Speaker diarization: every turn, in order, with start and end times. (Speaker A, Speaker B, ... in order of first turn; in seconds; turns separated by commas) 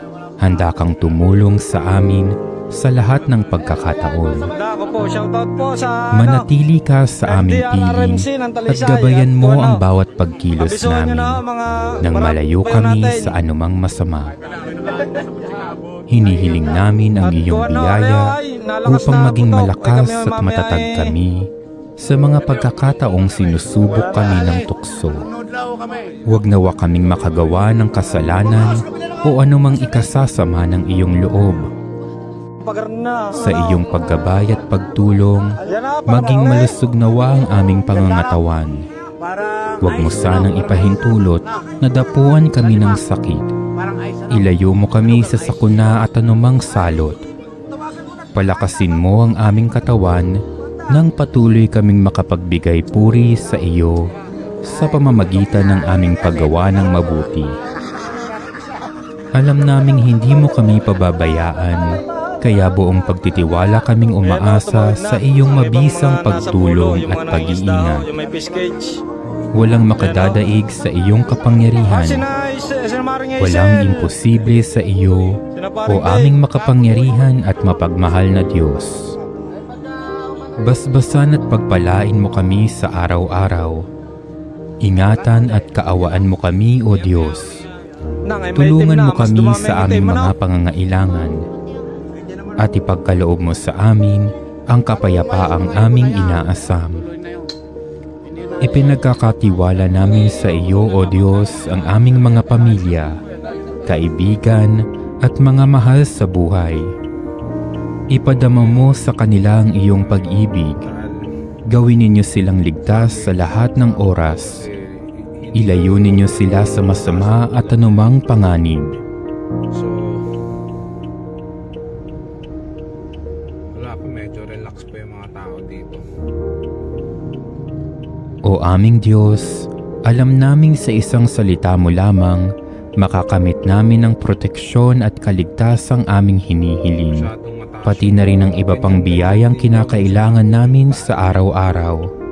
Speaker A: 0.4-4.5, Speaker B: 4.5-6.5, Speaker A: 6.1-11.4, Speaker B: 7.2-9.8, Speaker B: 10.6-13.3, Speaker A: 12.0-14.3, Speaker A: 16.1-21.5, Speaker B: 17.2-21.2, Speaker A: 22.0-25.2, Speaker A: 26.3-31.7, Speaker B: 32.6-33.7, Speaker A: 33.3-38.8, Speaker B: 35.6-36.8, Speaker A: 39.8-43.5, Speaker A: 44.3-47.2, Speaker A: 48.3-50.4, Speaker A: 50.9-54.0, Speaker A: 54.6-57.5, Speaker A: 59.4-68.1, Speaker B: 64.2-69.0, Speaker A: 69.5-72.2, Speaker B: 70.0-70.4, Speaker B: 71.9-74.1, Speaker A: 73.4-79.1, Speaker B: 75.5-76.4, Speaker A: 80.6-83.8, Speaker A: 84.8-87.6, Speaker B: 88.2-90.3, Speaker A: 88.5-91.4, Speaker A: 92.6-97.0, Speaker A: 98.6-103.1, Speaker A: 103.8-106.8, Speaker A: 108.1-110.8, Speaker C: 108.4-109.0, Speaker C: 109.8-111.3, Speaker A: 111.7-114.6, Speaker C: 112.9-118.1, Speaker A: 115.5-119.0, Speaker C: 119.7-120.3, Speaker C: 123.7-126.1, Speaker A: 128.4-132.5, Speaker A: 133.0-137.3, Speaker C: 137.1-141.5, Speaker A: 137.8-142.0